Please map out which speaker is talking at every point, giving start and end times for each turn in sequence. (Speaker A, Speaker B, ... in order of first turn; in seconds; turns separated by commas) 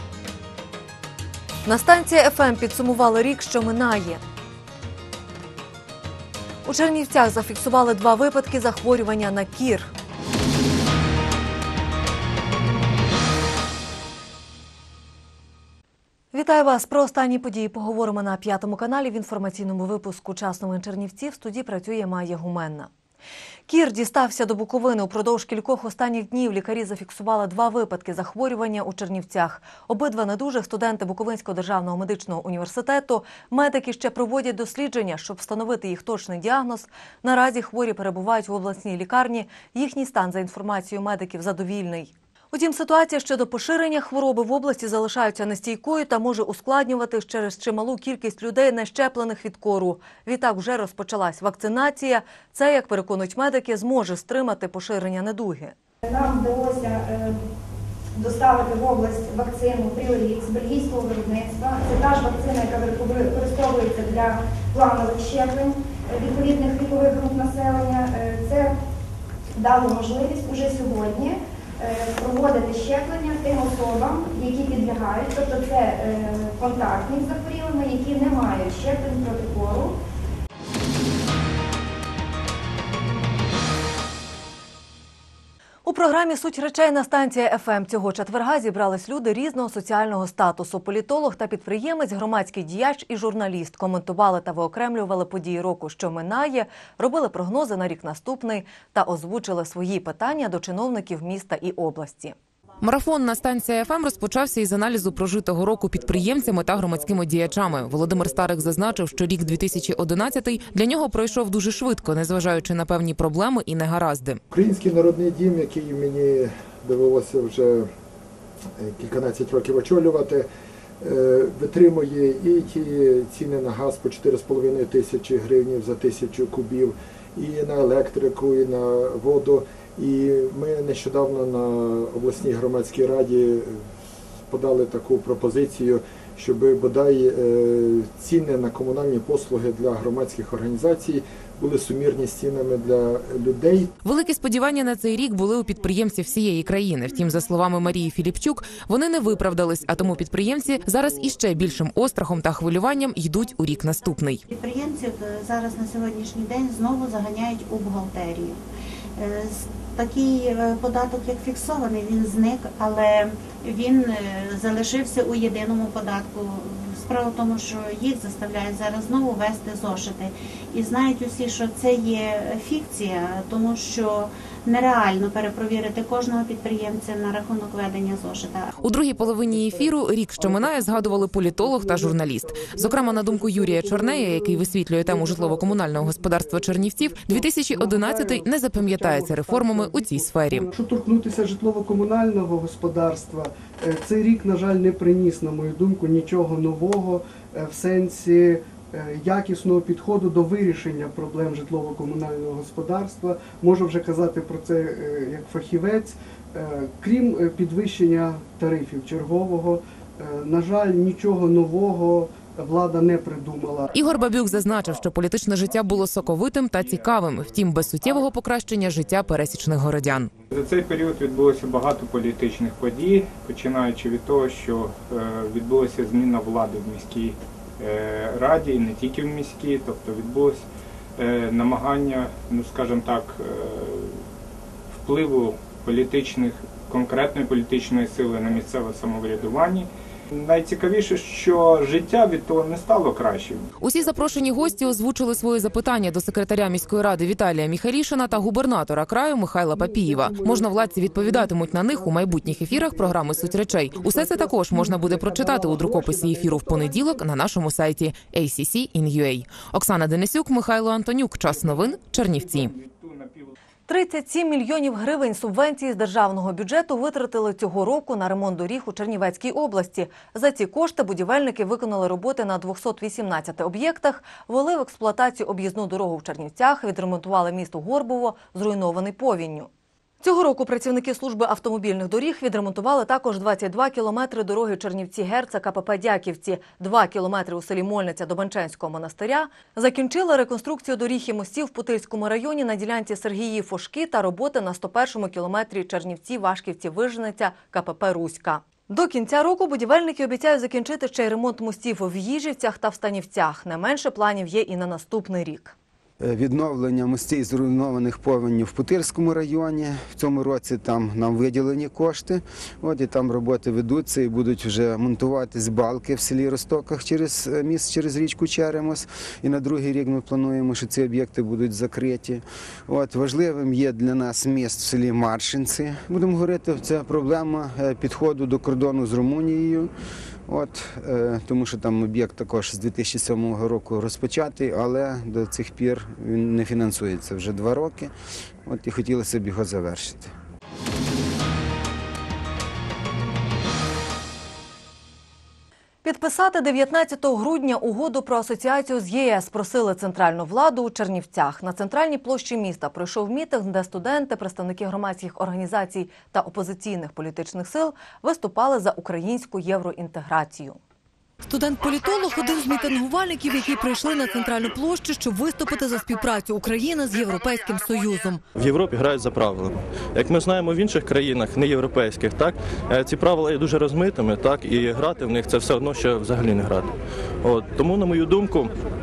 Speaker A: 1.7-4.2, Speaker A: 6.7-9.9, Speaker A: 16.3-22.9, Speaker A: 23.7-55.8, Speaker B: 56.1-57.3, Speaker B: 58.2-68.7, Speaker B: 69.6-79.9, Speaker A: 85.8-102.4, Speaker C: 102.8-114.4, Speaker D: 114.5-117.9, Speaker D: 118.8-120.5, Speaker D: 121.0-133.8, Speaker D: 134.5-143.9, Speaker C: 144.0-154.4, Speaker E: 154.5-158.6, Speaker E: 159.2-178.7, Speaker C: 178.8-190.7, Speaker F: 178.8-213.9, Speaker C: 213.9-220.3, Speaker G: 220.5-230.7, Speaker G: 231.2-234.1, Speaker G: 235.0-239.9, Speaker G: 240.4-243.7, Speaker C: 243.8-262.7, Speaker F: 244.2-244.9, Speaker F: 249.7-257.2, Speaker G: 262.3-263.5, Speaker A: 263.9-279.7, Speaker A: 280.2-305.8, Speaker H: 306.2-329.9, Speaker H: 330.5-338.1, Speaker H: 338.7-340.3, Speaker A: 346.0-360.8, Speaker A: 361.5-365.5, Speaker I: 362.4-362.9, Speaker I: 363.5-364.9, Speaker I: 365.5-368.4, Speaker A: 366.1-366.9, Speaker J: 368.6-376.9, Speaker J: 377.4-378.7